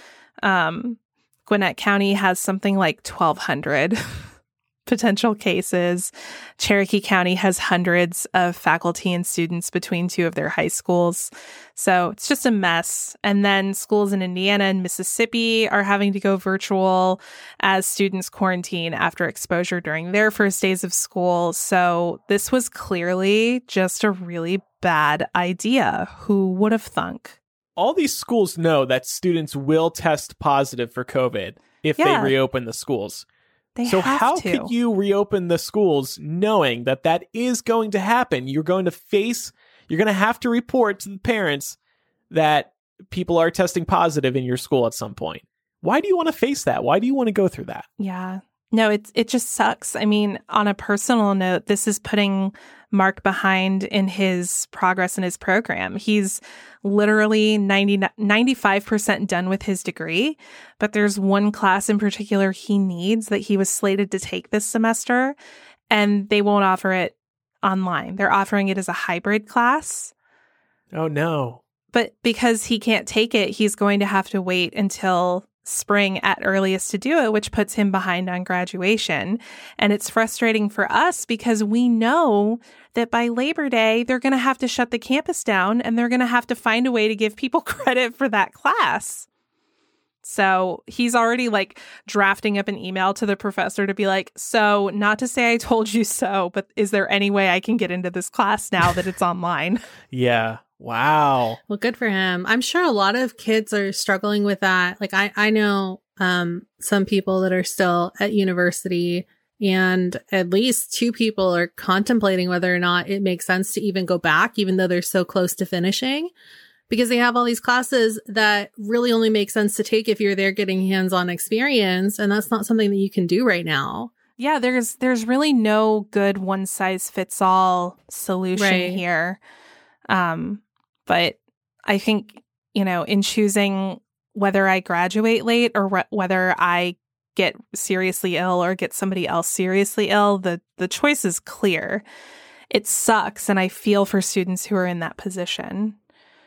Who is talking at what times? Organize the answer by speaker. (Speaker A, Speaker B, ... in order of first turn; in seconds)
Speaker A: 0.4-4.3, 4.9-27.4, 32.0-32.3, 33.8-34.7, 48.0-65.3, 65.9-70.1, 71.9-89.3, 90.2-99.8, 124.4-129.4, 130.1-142.0, 142.7-146.0
Speaker B: 27.8-33.3, 33.9-41.8, 42.3-47.9, 70.9-71.6, 100.1-101.6
Speaker C: 101.7-116.3, 116.9-124.1, 128.6-129.0